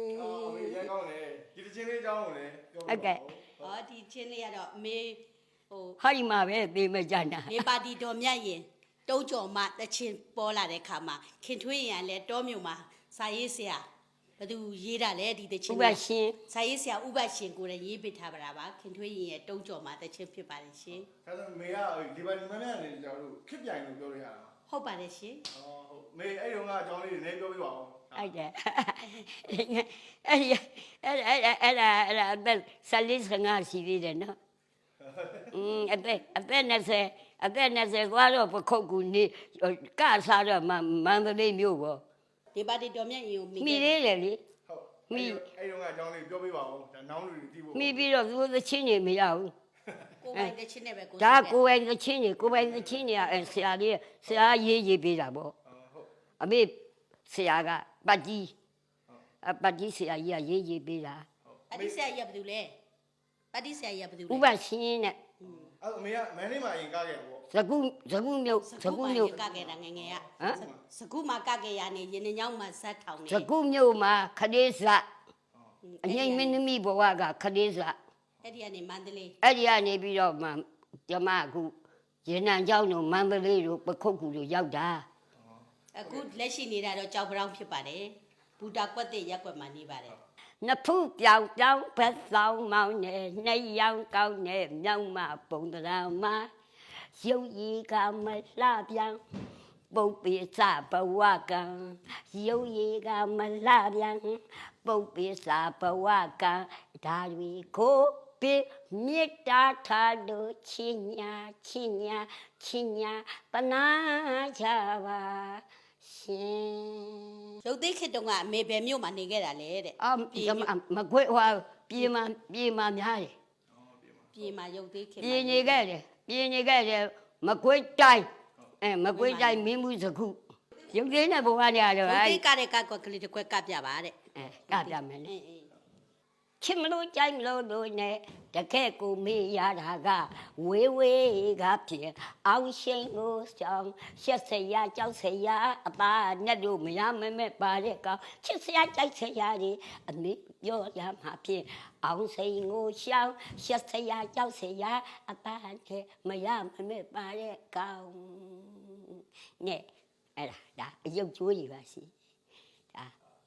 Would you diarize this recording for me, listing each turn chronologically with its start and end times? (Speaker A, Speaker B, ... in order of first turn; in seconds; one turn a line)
Speaker A: 0.1-3.5
Speaker B: 2.9-3.2
Speaker C: 3.6-6.0
Speaker B: 6.0-7.6
Speaker C: 7.5-13.8
Speaker C: 14.4-21.1
Speaker B: 15.7-16.4
Speaker A: 21.2-24.5
Speaker C: 24.7-25.4
Speaker A: 25.5-28.2
Speaker B: 28.1-34.4
Speaker B: 35.5-42.0
Speaker C: 42.5-44.0
Speaker B: 43.6-44.4
Speaker A: 44.7-48.0
Speaker B: 45.1-45.4
Speaker B: 47.7-49.5
Speaker C: 50.2-51.5
Speaker B: 51.2-55.5
Speaker B: 56.4-58.5
Speaker B: 59.4-61.3
Speaker C: 61.7-62.8
Speaker C: 63.5-64.5
Speaker B: 64.3-65.2
Speaker C: 65.4-65.7
Speaker A: 65.8-67.4
Speaker B: 67.5-69.4
Speaker C: 68.6-73.5
Speaker B: 70.4-70.7
Speaker B: 73.3-75.0
Speaker C: 75.8-76.6
Speaker B: 76.0-78.0
Speaker C: 78.4-79.3
Speaker B: 79.4-81.7
Speaker B: 82.2-85.1
Speaker C: 85.9-90.2
Speaker B: 90.6-96.5
Speaker B: 97.1-99.2
Speaker B: 99.9-117.4
Speaker C: 117.6-120.7
Speaker B: 120.0-123.3
Speaker C: 124.3-125.9
Speaker B: 125.2-128.3
Speaker B: 128.8-130.4
Speaker C: 129.1-129.7
Speaker B: 130.9-132.4
Speaker C: 132.0-134.2
Speaker B: 134.4-135.3
Speaker C: 134.7-135.7
Speaker B: 136.6-162.1